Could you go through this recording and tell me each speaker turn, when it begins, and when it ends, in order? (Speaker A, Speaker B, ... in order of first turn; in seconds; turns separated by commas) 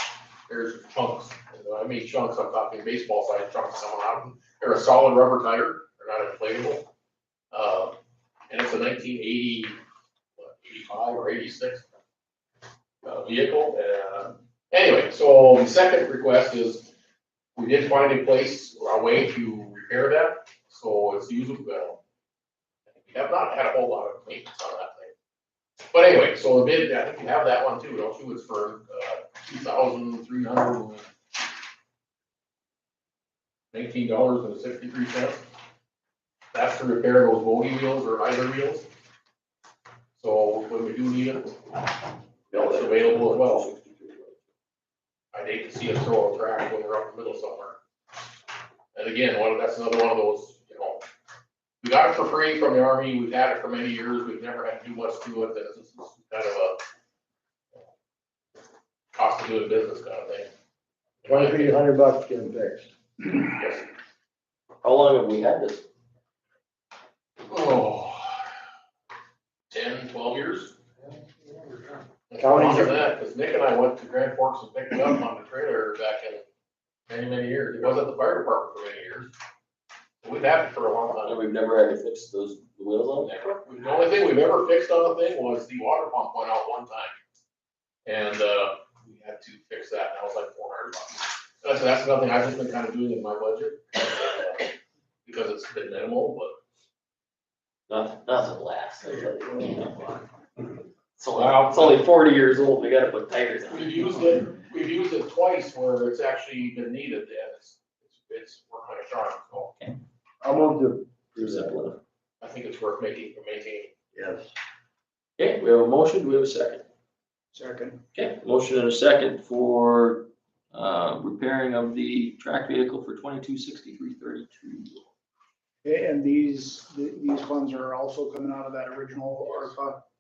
Speaker A: 0.5-6.9, Speaker A: 7.5-8.0, Speaker A: 8.5-9.8, Speaker A: 10.4-11.9, Speaker A: 13.0-16.9, Speaker A: 17.6-22.0, Speaker A: 23.0-25.1, Speaker A: 25.9-31.1, Speaker A: 33.7-35.4, Speaker A: 36.5-38.9, Speaker A: 40.2-41.6, Speaker A: 42.5-43.6, Speaker B: 42.5-44.3, Speaker A: 45.3-47.8, Speaker A: 48.9-51.0, Speaker A: 51.8-56.8, Speaker A: 59.1-60.5, Speaker A: 61.2-61.8, Speaker C: 61.3-62.9, Speaker A: 63.5-63.9, Speaker B: 64.8-65.9, Speaker A: 67.5-68.5, Speaker A: 69.7-70.8, Speaker A: 72.3-76.4, Speaker C: 72.4-73.0, Speaker A: 77.1-79.3, Speaker A: 80.2-81.4, Speaker B: 81.2-83.3, Speaker A: 83.2-87.2, Speaker A: 88.1-94.7, Speaker A: 95.2-96.5, Speaker B: 97.9-100.2, Speaker B: 101.2-104.0, Speaker A: 101.3-102.1, Speaker A: 103.7-109.7, Speaker C: 110.4-111.8, Speaker B: 111.4-112.0, Speaker A: 112.4-113.9, Speaker C: 114.1-114.5, Speaker B: 115.4-116.8, Speaker D: 117.5-118.0, Speaker B: 118.1-125.1, Speaker D: 125.8-130.0